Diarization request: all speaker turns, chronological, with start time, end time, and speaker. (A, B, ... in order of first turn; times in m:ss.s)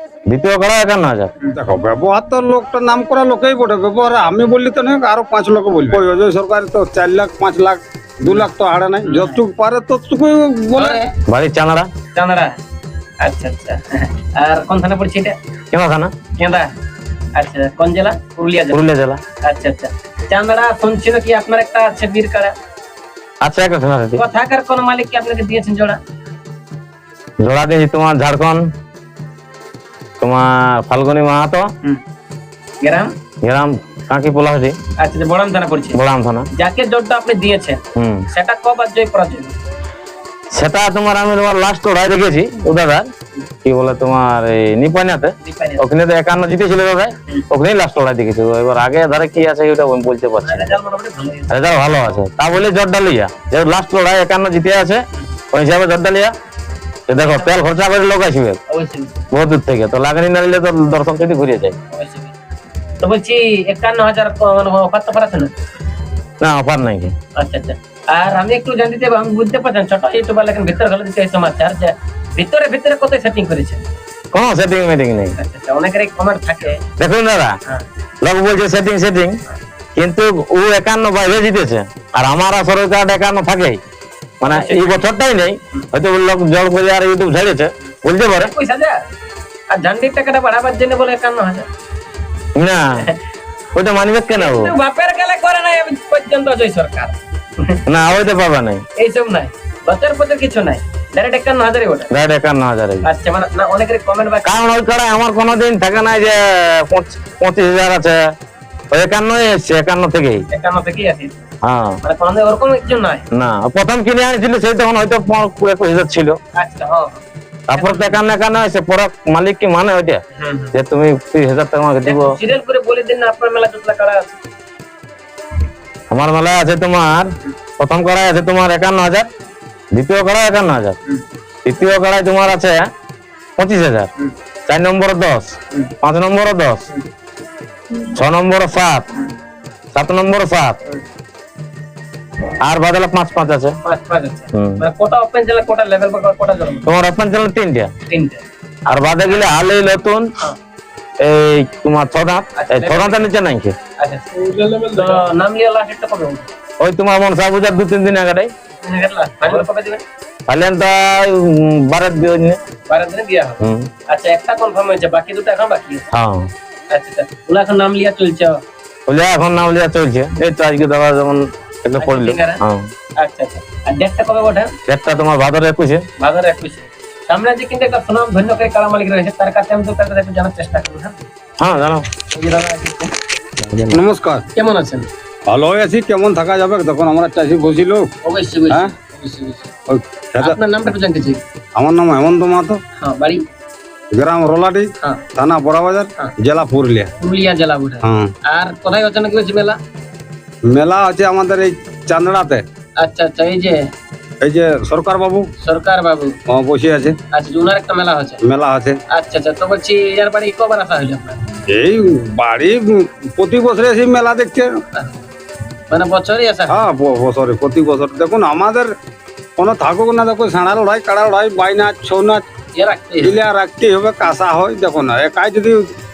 0:00.3-0:01.3 A
0:01.6-0:11.0 B
0:09.0-0:09.4 C
0:10.8-0:11.2 C
0:11.3-0:11.9 A
0:12.1-0:12.6 C
0:13.2-0:15.4 C
0:15.7-0:16.1 A
0:16.4-0:16.7 C
0:17.4-0:18.8 C
0:18.7-0:19.2 A
0:19.4-0:22.6 C
0:23.4-0:24.2 A
0:24.2-0:26.0 C
0:27.4-0:28.7 A
0:30.2-0:31.7 A
0:32.8-0:33.2 C
0:33.4-0:34.8 A
0:35.0-0:36.0 C
0:35.9-0:36.5 A
0:36.5-0:39.6 C
0:38.0-0:38.3 A
0:40.5-0:43.1 A
0:43.6-0:50.8 A
0:45.4-0:45.8 C
0:50.4-0:51.7 C
0:51.5-0:56.3 A
0:57.1-0:58.6 A
0:57.2-0:57.6 C
0:58.7-0:59.3 C
0:59.3-1:01.8 A
1:01.9-1:02.3 C
1:03.0-1:05.5 C
1:06.4-1:07.1 A
1:07.4-1:13.8 C
1:14.3-1:15.4 A
1:15.4-1:16.8 C
1:17.0-1:17.6 A
1:18.2-1:19.4 A
1:20.0-1:23.8 A
1:24.4-1:28.5 A
1:24.4-1:25.1 C
1:28.3-1:29.0 C
1:29.7-1:31.7 C
1:32.6-1:32.9 A
1:33.7-1:34.8 A
1:34.4-1:37.8 C
1:37.9-1:38.8 A
1:39.0-1:42.1 C
1:42.1-1:43.1 A
1:43.0-1:44.8 C
1:44.4-1:48.3 A
1:48.9-1:50.5 A
1:50.5-1:51.4 C
1:51.6-1:52.0 A
1:52.0-1:53.3 C
1:53.3-1:56.4 A
1:56.6-1:57.2 C
1:57.7-2:00.2 A
1:57.8-1:58.2 C
2:00.4-2:00.7 C
2:00.7-2:02.4 A
2:02.0-2:04.3 C
2:06.1-2:09.3 A
2:09.9-2:11.0 A
2:11.6-2:12.9 A
2:13.6-2:14.1 A
2:14.7-2:16.9 A
2:18.1-2:19.1 A
2:19.9-2:20.8 A
2:22.6-2:23.8 A
2:23.8-2:26.9 C
2:24.5-2:24.8 A
2:26.9-2:27.9 A
2:28.1-2:29.5 C
2:28.9-2:30.3 A
2:31.2-2:33.8 A
2:32.6-2:33.3 C
2:34.0-2:36.5 C
2:36.8-2:38.5 A
2:38.8-2:40.0 C
2:40.5-2:42.6 A
2:42.9-2:46.1 C
2:43.6-2:43.9 A
2:46.1-2:46.5 A
2:46.9-2:48.6 C
2:49.1-2:52.9 A
2:52.0-2:52.6 C
2:53.2-2:54.8 C
2:54.9-2:56.0 A
2:56.2-3:01.2 C
3:01.6-3:02.1 A
3:02.3-3:03.1 C
3:03.6-3:04.0 A
3:03.9-3:04.4 B
3:04.6-3:05.1 C
3:05.5-3:08.1 B
3:08.2-3:09.7 C
3:09.9-3:10.6 B
3:10.4-3:11.4 C
3:11.8-3:12.8 B
3:13.0-3:13.4 C
3:14.1-3:17.1 B
3:17.2-3:19.8 C
3:18.0-3:18.3 B
3:20.7-3:22.6 B
3:23.0-3:23.9 C
3:24.4-3:25.5 B
3:25.6-3:26.4 C
3:26.5-3:27.2 B
3:27.3-3:28.4 C
3:28.4-3:29.0 B
3:29.1-3:31.4 C
3:31.7-3:34.8 B
3:35.9-3:36.8 C
3:36.7-3:38.9 B
3:39.6-3:42.4 B
3:42.8-3:43.4 C
3:43.2-3:46.0 B